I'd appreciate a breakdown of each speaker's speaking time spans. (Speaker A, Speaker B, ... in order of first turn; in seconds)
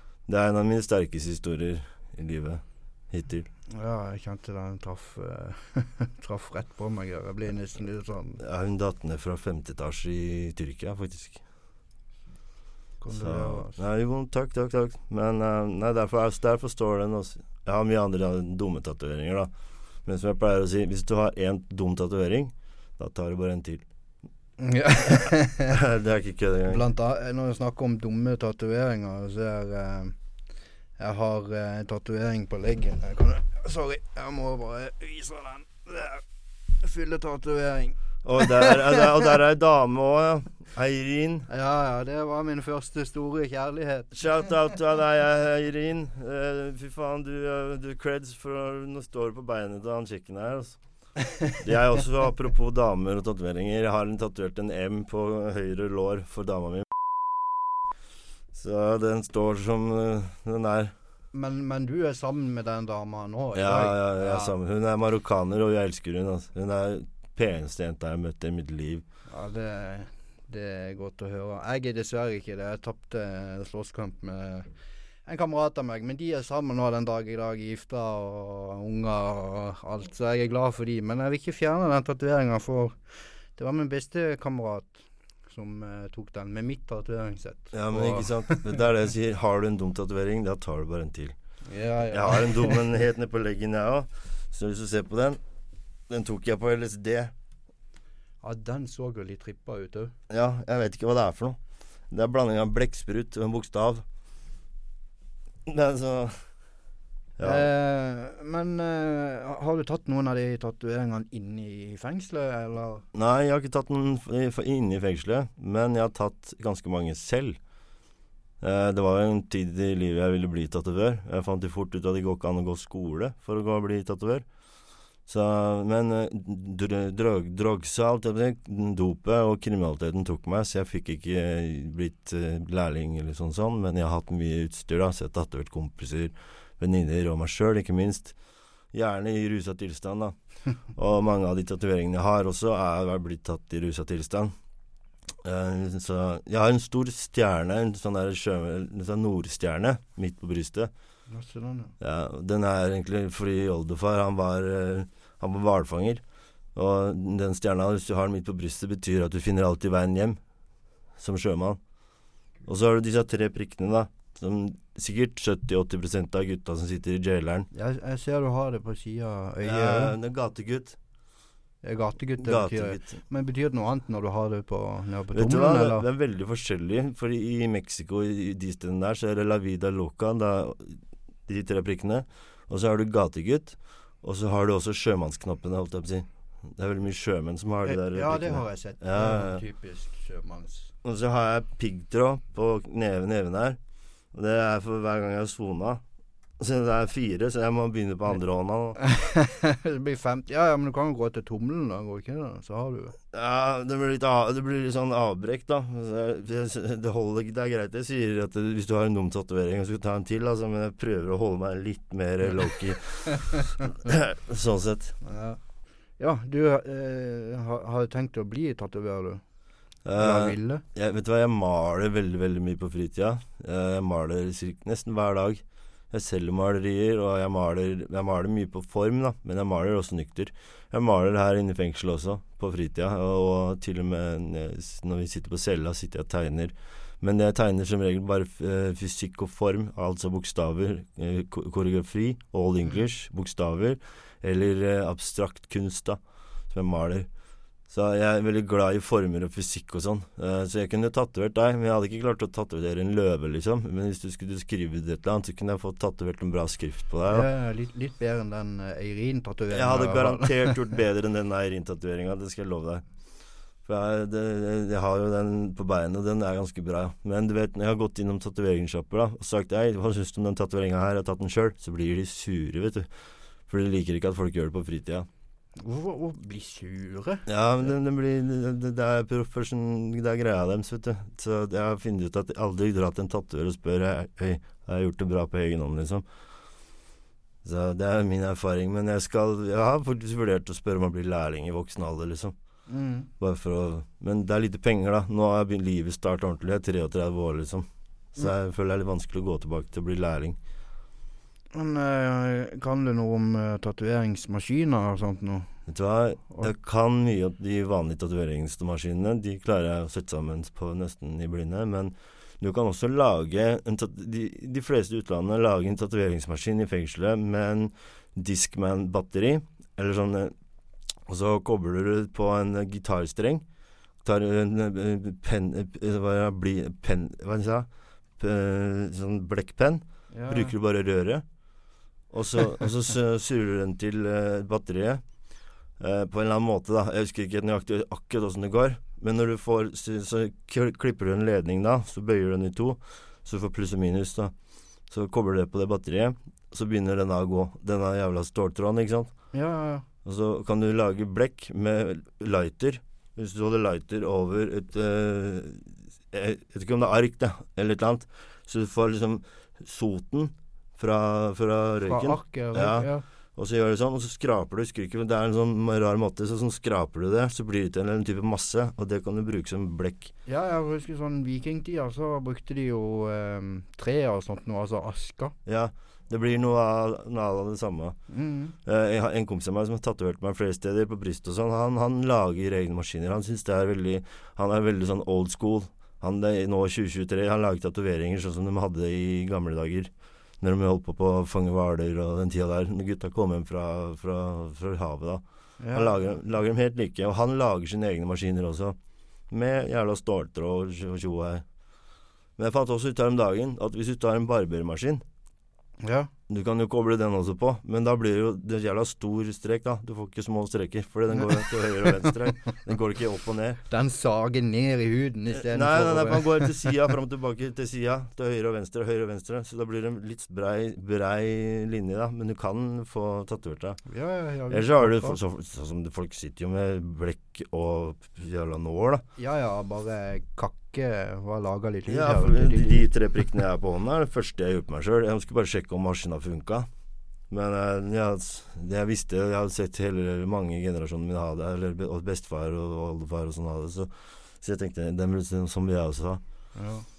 Speaker A: 0.3-3.5, 8.4-11.4, 13.1-19.5, 20.0-23.8, 25.1-26.8, 38.2-41.5, 44.1-50.8, 51.6-57.0, 58.5-60.9, 63.5-69.0, 87.7-91.3, 92.1-95.4, 96.1-97.3, 100.3-101.6, 102.1-104.0, 105.7-106.5, 107.4-107.7, 113.1-117.6, 118.6-124.5, 125.3-138.3, 138.9-140.3, 140.9-144.5, 145.4-150.9, 152.0-156.2, 156.7-160.4, 161.2-161.8, 162.7-167.7, 169.6-171.0, 172.4-173.2, 175.3-189.6, 191.0-193.8, 194.3-196.0, 196.6-199.0, 203.3-215.2, 220.1-246.2, 246.7-247.3, 247.9-257.5, 259.7-263.0, 263.9-273.1, 273.7-275.3, 277.4-286.2, 287.6-292.5, 293.4-300.6, 305.9-320.5, 321.3-323.6, 324.2-331.4, 332.3-335.2, 336.0-344.5, 345.1-349.3, 350.2-370.3, 375.6-378.2, 378.8-399.0, 399.5-401.6, 402.6-405.2, 406.5-413.8, 415.5-424.0, 424.7-429.2, 432.1-436.9, 437.5-446.4
Speaker B: 3.7-8.4, 13.0-13.8, 24.6-25.8, 26.7-30.1, 31.0-36.2, 36.8-39.0, 41.5-44.1, 61.3-64.5, 69.3-74.7, 75.2-88.8, 91.7-92.8, 98.4-100.1, 107.4-113.0, 151.3-151.9, 167.7-170.1, 171.8-176.0, 187.8-190.9, 199.0-203.1, 215.2-215.6, 216.2-219.4, 220.2-220.8, 257.3-260.7, 275.8-277.4, 292.9-293.3, 301.7-305.7, 330.3-330.7, 349.5-350.0, 362.1-363.2, 370.4-375.5, 378.3-378.7, 395.8-396.1, 406.0-406.3, 412.0-412.3, 413.9-416.9, 424.1-425.4, 429.4-433.0, 446.8-447.1